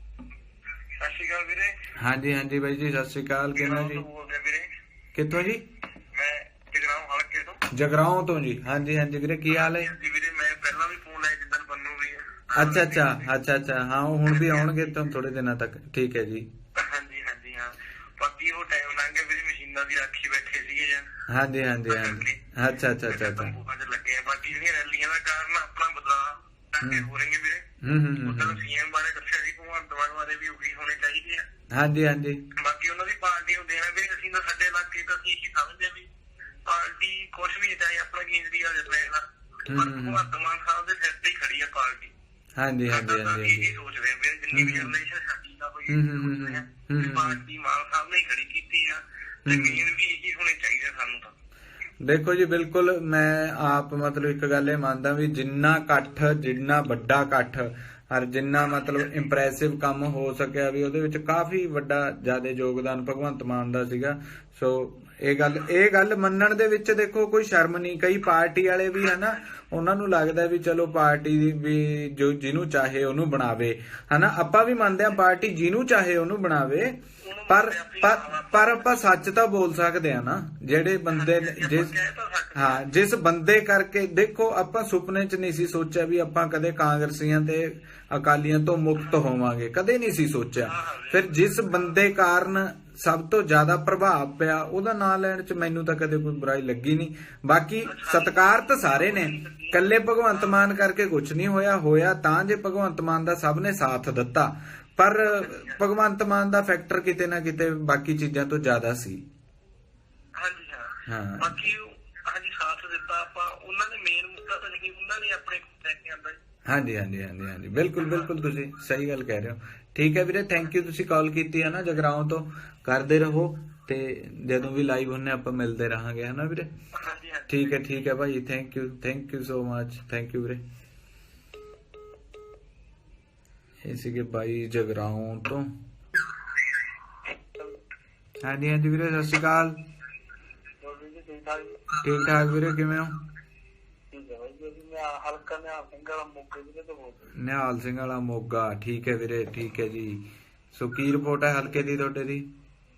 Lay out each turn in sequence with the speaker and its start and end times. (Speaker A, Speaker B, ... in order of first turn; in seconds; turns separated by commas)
Speaker A: 1.0-1.8, Speaker B: 2.0-4.0, Speaker A: 3.5-4.7, Speaker B: 5.1-5.7, Speaker A: 6.1-7.6, Speaker B: 7.7-9.9, Speaker A: 9.5-13.3, Speaker B: 12.5-16.5, Speaker A: 14.2-15.0, Speaker A: 16.8-21.1, Speaker B: 21.3-23.5, Speaker A: 21.9-22.4, Speaker A: 23.0-27.6, Speaker B: 26.8-27.1, Speaker B: 27.8-28.6, Speaker A: 28.2-31.4, Speaker B: 31.7-32.4, Speaker A: 32.5-36.1, Speaker A: 36.6-42.1, Speaker B: 39.7-40.3, Speaker B: 42.5-43.7, Speaker A: 42.9-51.3, Speaker B: 44.5-44.9, Speaker B: 45.9-47.4, Speaker B: 49.5-49.8, Speaker B: 52.0-81.9, Speaker A: 58.6-59.1, Speaker A: 69.0-69.4, Speaker A: 77.2-79.0, Speaker A: 81.1-82.9, Speaker B: 82.5-109.2, Speaker A: 90.6-92.0, Speaker A: 97.9-100.8, Speaker A: 105.2-105.8, Speaker A: 110.3-116.4, Speaker B: 111.1-111.7, Speaker B: 116.7-126.7, Speaker A: 118.0-118.4, Speaker A: 126.9-128.0, Speaker B: 127.5-130.6, Speaker B: 133.8-135.7, Speaker B: 138.4-139.8, Speaker A: 140.8-142.0, Speaker B: 142.0-143.2, Speaker A: 144.1-147.3, Speaker B: 147.3-152.5